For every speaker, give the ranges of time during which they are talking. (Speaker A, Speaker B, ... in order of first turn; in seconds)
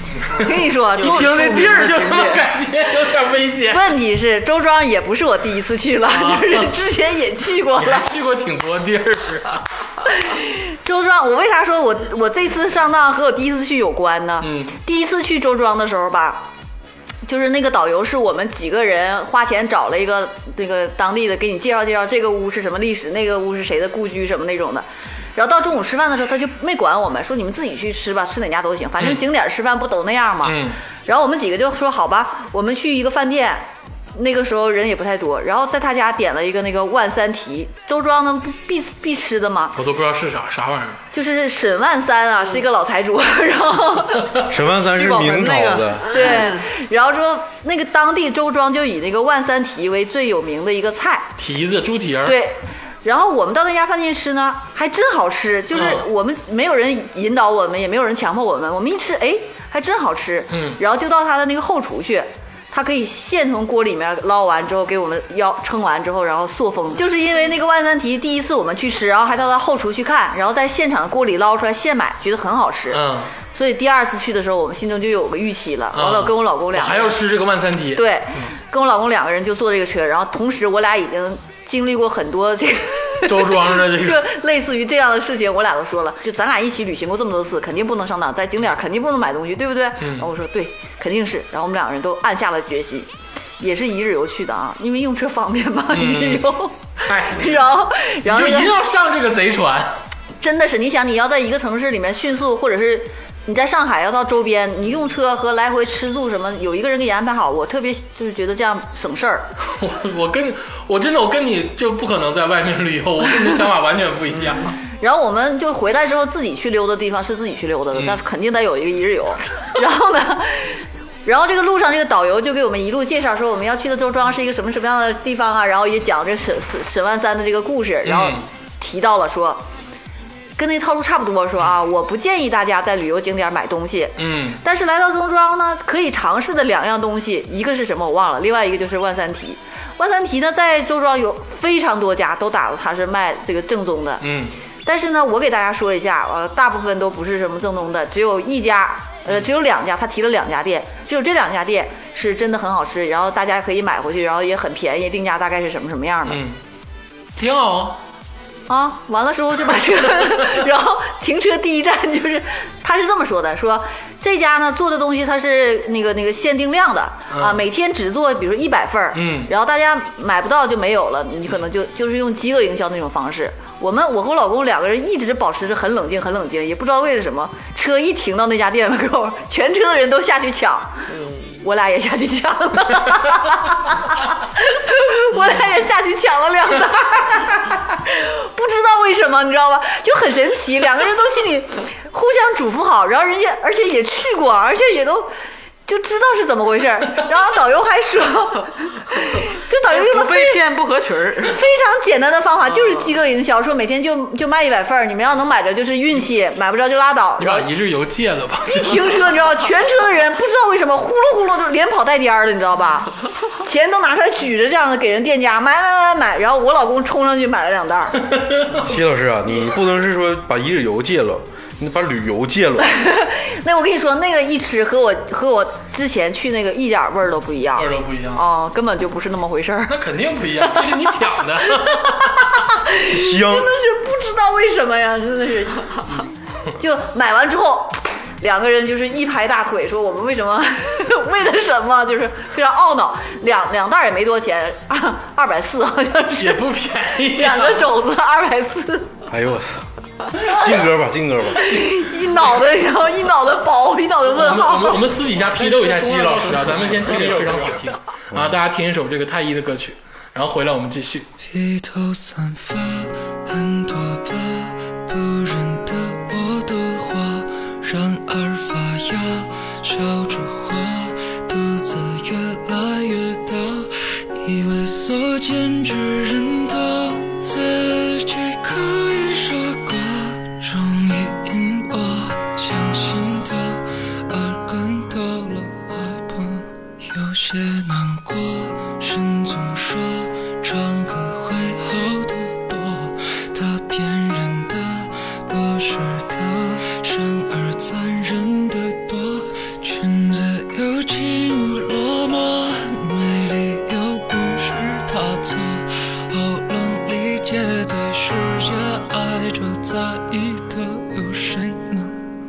Speaker A: 0.2-0.5, 1.0-3.9, 6.1-6.7, 7.8-9.6, 14.4-14.8, 30.4-30.8, 39.8-41.0, 51.4-52.4, 55.7-56.0, 60.5-60.8, 72.9-73.3, 75.9-78.5, 83.3-84.2, 90.0-90.3, 95.9-100.0, 109.7-114.7, 117.9-118.2, 128.0-128.4, 134.2-134.6, 144.2-144.6, 156.3-156.6, 157.4-158.0, 167.3-167.6, 169.1-169.5, 207.4-209.2, 218.3-218.9, 227.8-228.4, 229.9-232.5, 246.4-247.9, 254.3-261.3
Speaker B: 0.3-1.9, 3.7-8.1, 10.1-16.4, 17.2-39.8, 41.1-44.3, 46.1-51.3, 52.2-73.0, 73.5-77.2, 78.0-93.1, 93.6-98.7, 100.4-109.5, 115.0-129.6, 130.6-144.2, 144.8-156.4, 158.7-180.9, 181.6-195.3, 195.9-200.6, 201.5-207.7, 208.7-218.2, 222.8-230.0, 230.6-231.1, 231.8-246.6, 247.2-249.1, 251.6-255.0
Speaker C: 0.9-2.4, 44.9-46.7, 114.3-114.7, 181.1-181.6, 199.9-201.6, 202.7-203.2, 255.6-257.9
Speaker D: 44.5-46.4, 218.7-222.9, 233.1-233.7, 249.3-249.8, 250.4-251.6, 258.3-258.6
Speaker E: 261.4-312.2